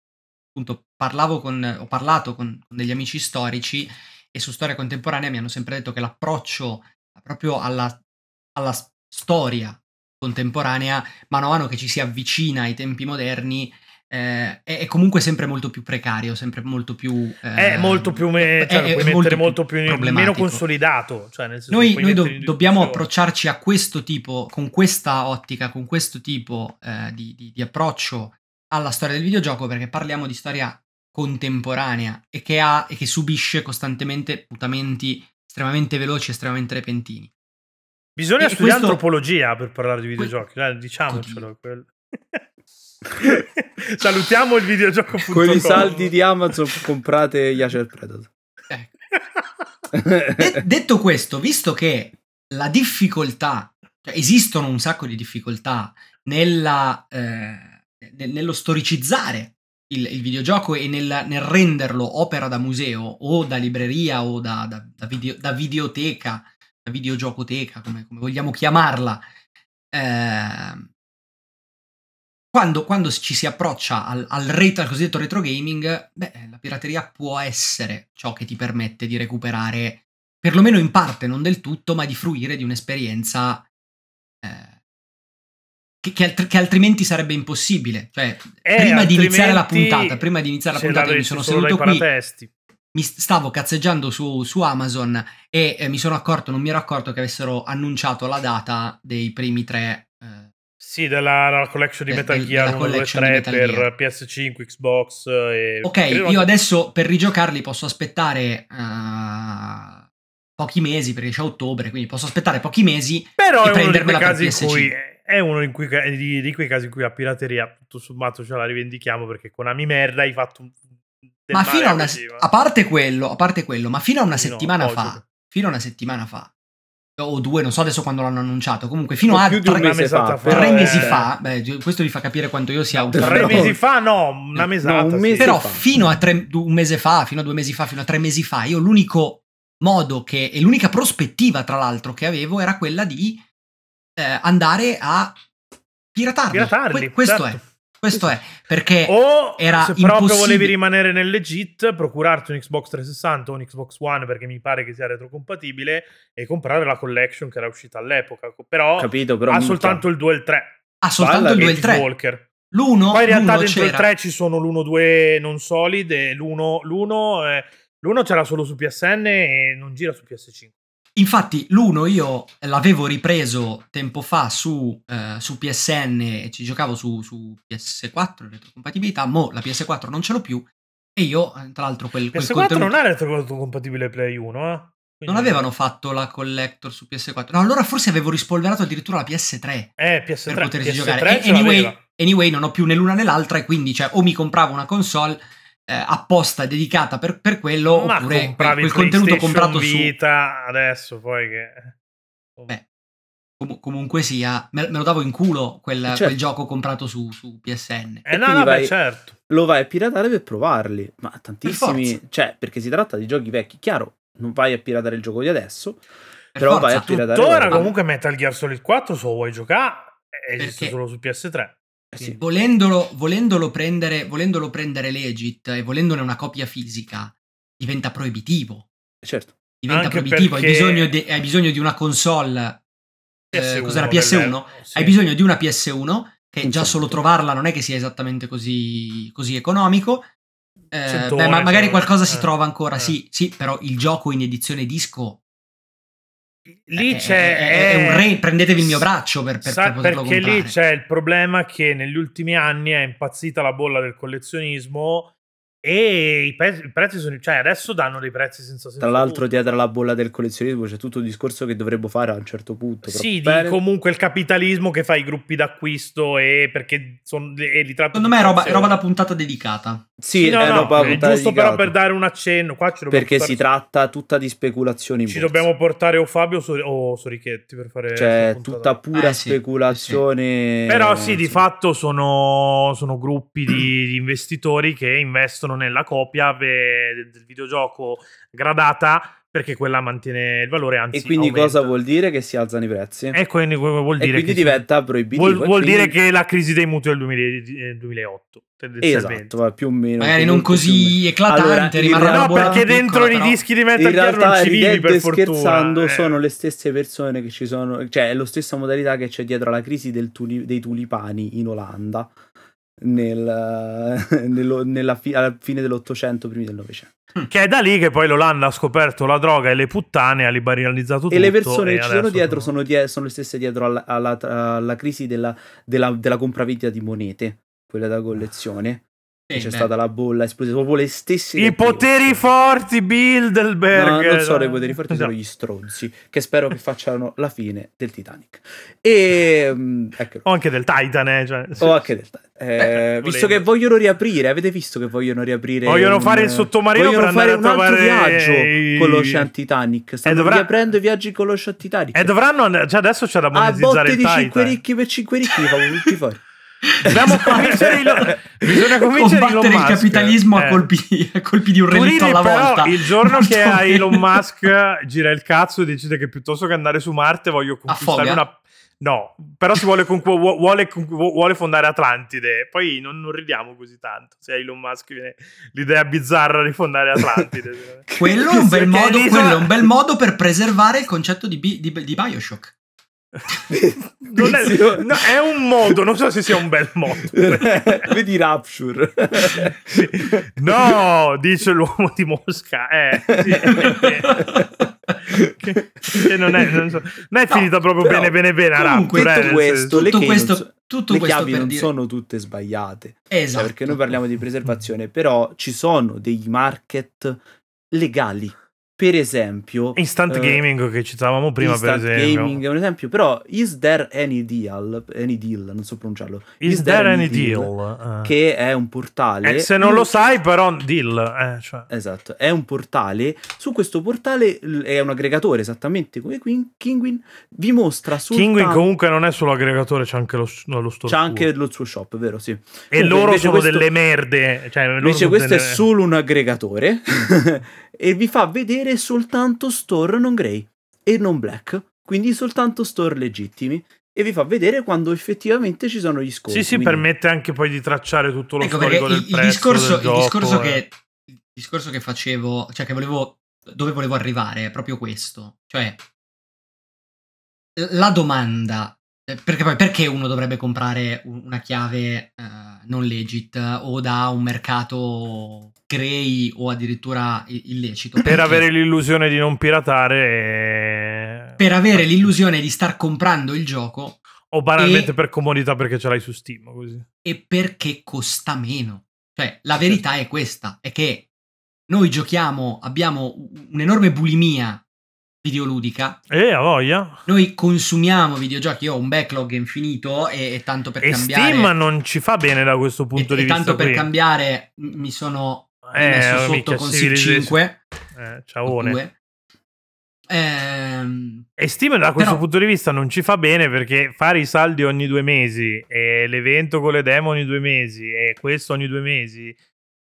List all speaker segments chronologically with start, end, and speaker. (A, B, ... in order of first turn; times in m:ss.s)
0:00.5-0:08.0 A
0:08.5-0:20.6 A
0:17.6-0:23.0 B
0:21.7-0:37.3 A
0:38.2-0:42.4 B
0:38.4-0:39.0 A
0:41.1-0:41.4 A
0:43.1-0:46.1 B
0:45.3-0:48.3 C
0:49.1-0:49.4 B
0:49.9-0:50.5 C
0:50.4-1:09.2 A
1:09.9-1:10.9 A
1:12.5-1:23.7 A
1:24.4-1:24.7 A
1:26.0-1:32.1 A
1:28.6-1:32.5 B
1:32.9-1:40.5 A
1:40.8-1:46.5 B
1:42.1-1:43.9 A
1:45.8-1:50.0 A
1:50.6-1:54.9 A
1:53.4-2:00.8 B
2:01.4-2:02.4 B
2:01.5-2:06.5 A
2:04.3-2:05.2 B
2:07.2-2:09.9 A
2:09.3-2:11.2 C
2:09.7-2:11.3 B
2:10.4-2:13.8 A
2:12.9-2:15.6 B
2:13.1-2:13.8 C
2:14.8-2:15.8 C
2:15.4-2:23.4 A
2:24.2-2:25.4 A
2:26.1-2:30.7 A
2:26.5-2:27.6 B
2:29.1-2:40.8 B
2:39.0-2:40.0 C
2:41.0-2:42.1 A
2:41.2-2:41.8 C
2:41.4-2:42.5 B
2:42.7-2:44.1 A
2:43.1-2:50.7 B
2:51.2-3:02.9 A
3:02.3-3:05.6 B
3:05.3-3:20.1 A
3:10.0-3:12.0 B
3:17.9-3:21.9 B
3:23.6-3:28.2 A
3:26.1-3:26.3 C
3:28.2-3:29.3 B
3:28.3-3:29.0 C
3:29.5-3:36.0 C
3:31.6-3:32.2 A
3:36.5-3:37.2 A
3:36.6-3:37.9 C
3:37.0-3:42.4 B
3:40.6-3:41.0 A
3:42.1-3:42.4 C
3:42.4-3:48.9 A
3:49.2-3:49.5 C
3:49.8-3:52.8 A
3:49.9-3:51.1 B
3:53.5-3:55.2 B
3:53.5-4:00.3 A
3:56.6-3:57.2 C
4:00.9-4:05.4 A
4:01.0-4:03.2 B
4:06.8-4:09.0 B
4:07.0-4:10.7 A
4:09.6-4:15.3 B
4:15.8-4:19.4 B
4:19.0-4:23.8 C
4:23.0-4:29.0 B
4:28.1-4:30.0 A
4:30.2-4:31.9 C
4:30.4-4:33.6 B
4:30.6-4:31.2 A
4:33.1-4:35.7 C
4:35.3-4:39.0 B
4:38.1-4:41.6 C
4:39.1-4:40.2 A
4:40.9-4:51.9 B
4:51.1-4:53.4 C
4:53.3-4:59.6 B
4:54.2-4:56.2 C
4:59.0-5:02.8 C
5:00.2-5:03.6 A
5:02.2-5:06.4 B
5:04.0-5:12.3 C
5:13.0-5:17.1 C
5:17.5-5:22.7 B
5:21.3-5:32.5 C
5:29.5-5:29.9 A
5:31.6-5:35.3 B
5:33.9-5:40.4 C
5:40.4-5:42.0 B
5:41.8-5:52.3 C
5:42.8-5:43.6 B
5:45.8-5:49.5 B
5:50.2-5:50.8 B
5:52.1-5:54.8 B
5:53.5-5:56.4 C
5:56.9-5:57.9 A
5:57.0-6:00.9 B
5:57.1-5:58.3 C
5:58.9-6:04.2 A
6:01.9-6:18.1 B
6:07.9-6:08.4 A
6:18.1-6:19.6 C
6:18.2-6:22.7 A
6:18.9-6:19.6 B
6:23.7-6:25.3 C
6:24.2-6:28.1 B
6:27.3-6:30.9 C
6:29.5-6:34.5 B
6:33.3-6:33.9 C
6:33.7-6:34.6 A
6:35.3-6:36.2 C
6:35.6-6:40.0 B
6:38.7-6:41.9 A
6:39.1-6:47.4 C
6:43.3-6:44.2 A
6:47.9-6:50.6 C
6:49.9-6:52.6 B
6:51.6-6:57.7 C
6:56.6-6:58.3 B
6:58.2-7:00.1 C
6:59.4-7:01.9 B
7:01.9-7:08.9 C
7:08.3-7:11.5 B
7:11.1-7:13.9 C
7:12.9-7:15.8 B
7:15.0-7:27.0 C
7:26.5-7:30.8 B
7:28.6-7:36.0 A
7:37.8-7:48.6 A
7:48.2-7:52.3 B
7:51.6-7:54.2 A
7:54.5-7:57.0 B
7:54.8-7:55.1 A
7:57.2-8:01.3 A
8:01.9-8:04.8 A
8:05.4-8:06.2 A
8:06.3-8:07.2 B
8:07.2-8:11.7 A
8:11.0-8:14.1 B
8:13.2-8:17.8 A
8:15.8-8:17.6 B
8:18.1-8:19.0 B
8:18.6-8:19.1 A
8:20.3-8:21.4 A
8:21.6-8:29.6 B
8:22.1-8:22.4 A